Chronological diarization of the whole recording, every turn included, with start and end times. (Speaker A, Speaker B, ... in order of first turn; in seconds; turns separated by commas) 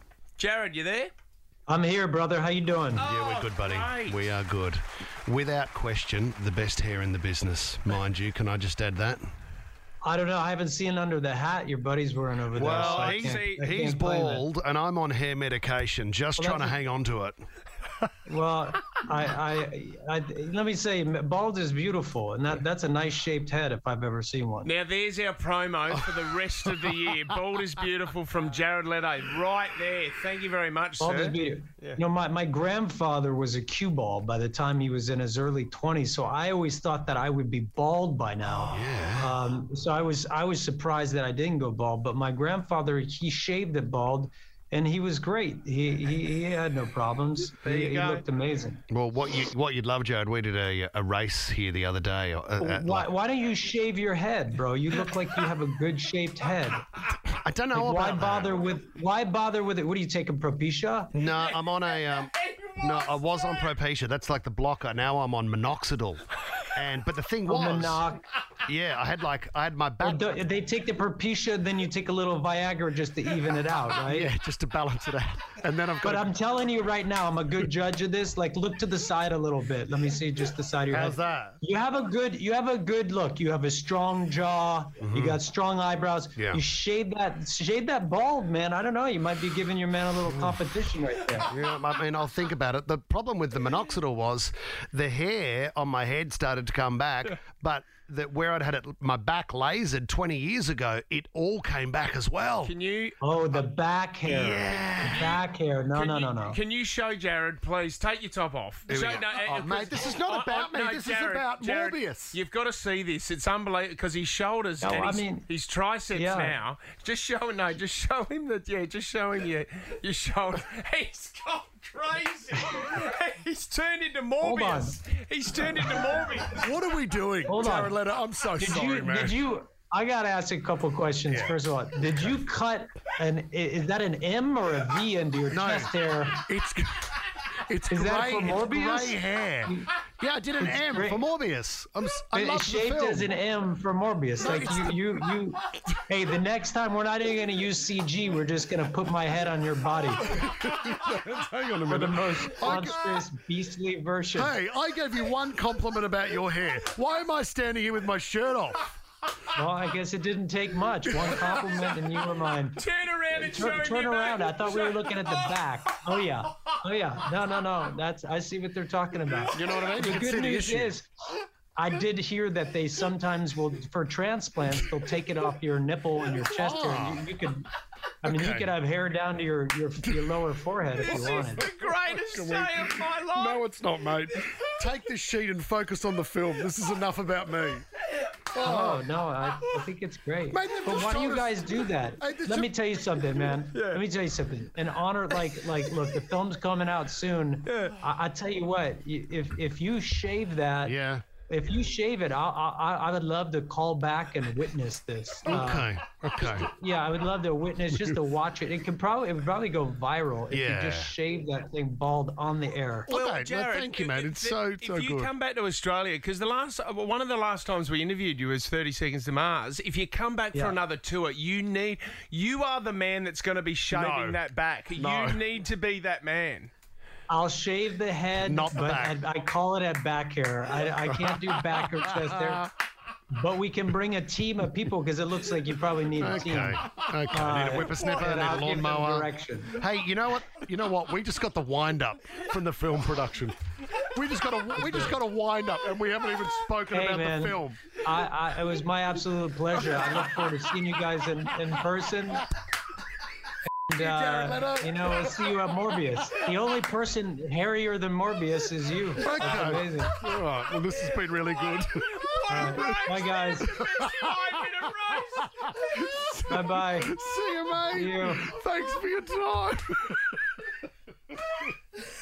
Speaker A: 0.4-1.1, Speaker B: 1.7-3.1, Speaker A: 3.0-4.3, Speaker C: 3.0-9.3, Speaker B: 10.0-14.4, Speaker C: 12.5-17.4, Speaker A: 12.7-13.6, Speaker B: 16.4-16.8, Speaker B: 18.2-24.7, Speaker A: 24.6-32.0, Speaker B: 31.0-48.8, Speaker C: 38.7-39.4, Speaker A: 47.5-48.2, Speaker C: 48.9-53.1, Speaker B: 52.6-56.8, Speaker C: 57.2-58.6, Speaker B: 57.7-61.1, Speaker C: 61.1-66.2, Speaker A: 61.2-63.7, Speaker C: 66.8-68.0, Speaker B: 67.5-68.2, Speaker C: 68.7-70.3, Speaker B: 70.0-74.3, Speaker C: 74.0-76.3, Speaker B: 76.0-91.5, Speaker C: 80.9-81.6, Speaker C: 85.0-85.4, Speaker C: 86.4-86.6, Speaker C: 90.2-90.6, Speaker C: 91.5-102.7, Speaker A: 102.6-103.2, Speaker B: 103.2-106.6, Speaker C: 104.2-105.4, Speaker A: 104.7-105.4, Speaker A: 105.9-126.6, Speaker C: 108.9-112.4, Speaker B: 114.8-115.5, Speaker B: 116.1-116.6, Speaker B: 124.4-125.0, Speaker C: 126.6-129.4, Speaker B: 127.5-128.0, Speaker B: 128.6-136.4, Speaker C: 131.3-131.6, Speaker C: 132.1-132.4, Speaker C: 135.5-137.1, Speaker C: 137.7-143.3, Speaker B: 137.9-139.9, Speaker B: 140.6-141.2, Speaker B: 142.3-150.3, Speaker C: 144.4-145.0, Speaker C: 150.2-153.3, Speaker B: 151.8-154.5, Speaker C: 154.3-158.9, Speaker B: 159.5-171.1, Speaker A: 162.8-165.6, Speaker C: 169.5-170.9, Speaker B: 171.7-177.7, Speaker C: 176.5-177.2, Speaker B: 178.2-181.7, Speaker C: 178.2-178.7, Speaker C: 180.0-180.4, Speaker A: 181.0-183.6, Speaker C: 181.0-187.8, Speaker C: 188.5-189.1, Speaker B: 188.6-201.0, Speaker C: 190.5-192.7, Speaker A: 193.7-194.0, Speaker A: 197.7-197.9, Speaker C: 200.8-201.2, Speaker B: 201.5-213.1, Speaker C: 205.4-206.7, Speaker C: 210.5-211.1, Speaker C: 213.1-215.3, Speaker A: 213.1-226.7, Speaker B: 220.5-220.8, Speaker C: 223.9-224.4, Speaker C: 224.9-225.4, Speaker B: 227.3-232.7, Speaker C: 228.4-229.2, Speaker C: 231.1-232.6, Speaker B: 233.3-239.8, Speaker C: 236.2-247.8, Speaker B: 244.8-245.1, Speaker B: 246.9-252.4, Speaker B: 253.9-260.1, Speaker C: 254.0-255.7, Speaker C: 259.2-261.9, Speaker A: 261.8-266.1, Speaker C: 262.5-264.8, Speaker B: 262.5-263.7, Speaker C: 265.4-270.4, Speaker B: 266.5-267.1, Speaker B: 267.9-268.5